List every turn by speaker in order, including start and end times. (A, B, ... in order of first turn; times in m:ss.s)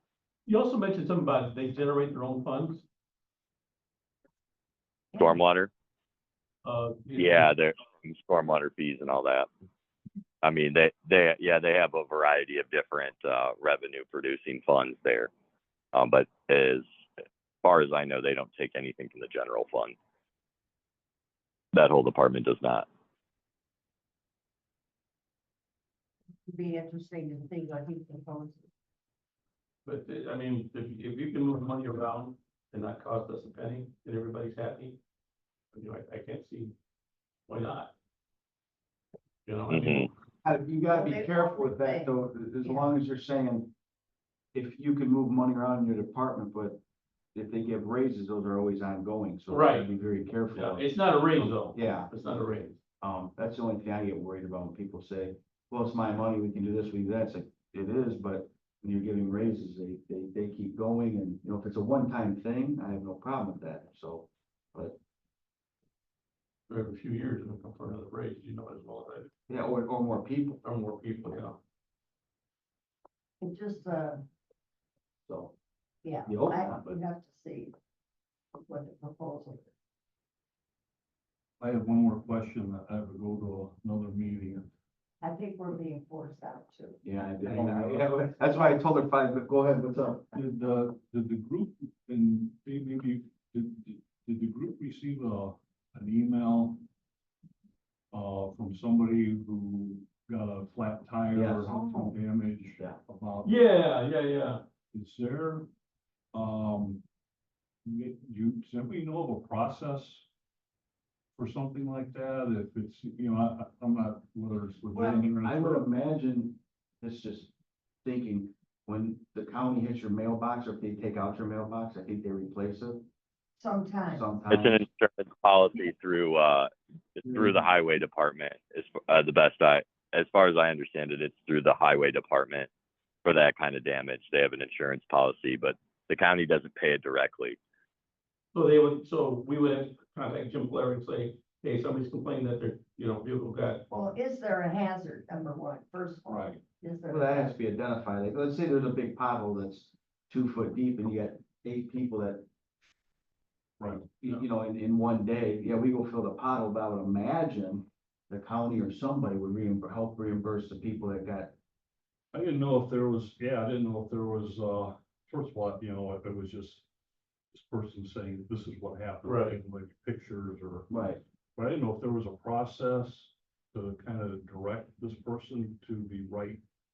0:00.5-0:02.8 A
0:05.2-0:05.7 B
0:06.6-0:07.5 A
0:07.2-0:09.5 B
0:10.4-0:15.3 B
0:15.9-0:16.8 B
0:17.6-0:19.9 B
0:21.7-0:22.9 B
0:26.5-0:28.6 C
0:29.8-0:35.0 A
0:35.7-0:36.7 A
0:37.5-0:37.9 A
0:39.4-0:40.1 A
0:39.7-0:40.1 B
0:40.4-0:43.7 D
0:40.9-0:42.9 C
0:44.5-0:46.8 D
0:47.3-0:52.1 D
0:49.5-0:49.9 A
0:50.5-0:52.8 A
0:53.0-1:05.0 D
1:06.7-1:09.3 A
1:09.5-1:10.6 D
1:10.6-1:11.6 A
1:13.4-1:14.2 C
1:15.3-1:15.5 D
1:16.0-1:17.7 C
1:16.2-1:17.0 D
1:18.6-1:19.7 C
1:21.6-1:24.7 E
1:25.2-1:27.0 C
1:27.0-1:30.3 D
1:27.4-1:28.1 E
1:30.3-1:36.8 E
1:38.1-1:43.5 E
1:41.3-1:42.2 D
1:41.7-1:42.0 C
1:43.4-1:44.6 A
1:44.9-1:45.7 E
1:46.3-1:47.0 E
1:47.8-1:50.3 E
1:51.4-1:55.8 E
1:54.9-1:55.3 C
1:55.4-1:57.5 D
1:58.0-2:03.0 D
2:03.6-2:04.2 C
2:04.1-2:04.8 D
2:04.5-2:12.7 B
2:13.2-2:17.6 B
2:18.5-2:23.8 A
2:23.9-2:27.6 C
2:27.1-2:32.4 D
2:33.8-2:34.2 E
2:34.2-2:41.5 D
2:42.3-2:46.9 E
2:47.5-2:51.0 E
2:49.2-2:49.6 A
2:50.9-2:51.2 D
2:51.6-2:56.6 E